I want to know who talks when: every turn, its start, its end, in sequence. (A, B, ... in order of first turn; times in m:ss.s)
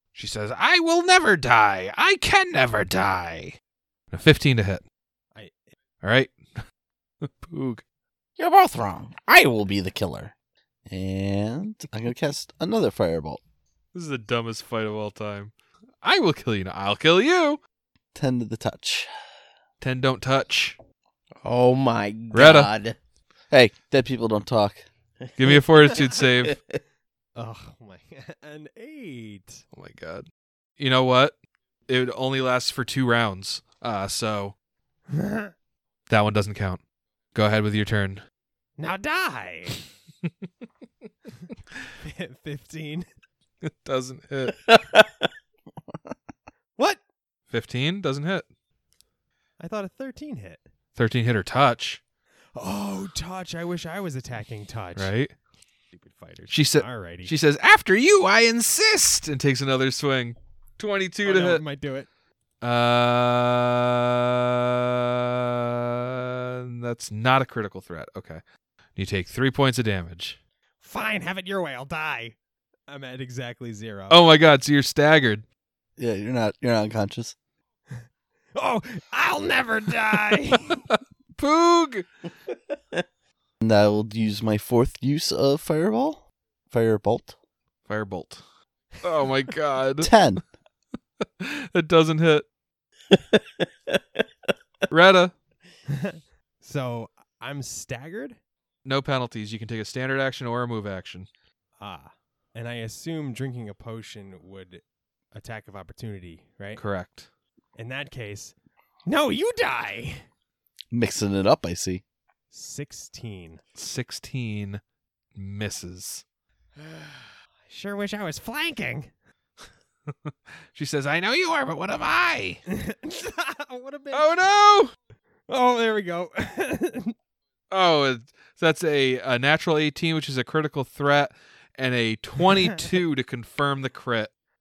0:00.1-0:03.6 A
0:04.1-0:04.8 A
0:05.3-0:05.7 B
0:06.0-0:06.4 A
0:07.2-0:07.8 A
0:08.4-0:10.3 C
0:10.9-0:13.4 C
0:13.9-0:17.6 A
0:18.1-0:19.1 C
0:19.8-0:20.8 A
0:21.4-0:23.0 D
0:22.3-0:22.7 A
0:23.5-0:24.8 C
0:25.2-0:26.8 D
0:25.4-0:26.6 A
0:27.3-0:29.6 B
0:29.7-0:30.3 A
0:30.8-0:31.4 A
0:31.9-0:34.5 A
0:35.1-0:35.5 B
0:36.1-0:36.8 A
0:37.3-0:38.2 A
0:38.8-0:39.8 B
0:42.0-0:43.1 B
0:43.6-0:44.6 A
0:44.6-0:45.1 D
0:47.5-0:48.4 A
0:49.6-0:50.6 B
0:51.0-0:52.0 A
0:52.5-0:55.1 B
0:54.9-0:55.3 A
0:55.9-0:57.3 B
0:56.5-1:01.6 A
1:01.2-1:02.1 B
1:02.6-1:08.4 A
1:09.0-1:10.4 A
1:10.8-1:12.4 B
1:12.9-1:14.2 B
1:14.1-1:15.4 A
1:16.0-1:17.3 C
1:18.5-1:20.9 B
1:20.9-1:22.0 A
1:23.6-1:27.3 C
1:27.9-1:28.4 A
1:29.0-1:30.1 A
1:30.0-1:30.4 C
1:31.4-1:32.4 A
1:33.1-1:34.0 D
1:34.9-1:35.3 A
1:35.9-1:38.4 B
1:38.8-1:41.3 A
1:41.8-1:46.8 B
1:46.8-1:47.3 A
1:47.8-1:50.2 B
1:50.9-1:52.0 C
1:52.5-1:53.6 B
1:53.7-1:54.8 A
1:55.3-1:56.2 A
1:56.8-1:59.1 B
2:00.1-2:02.6 A
2:02.7-2:04.5 B
2:04.1-2:04.9 A
2:05.5-2:07.1 B
2:07.7-2:14.3 A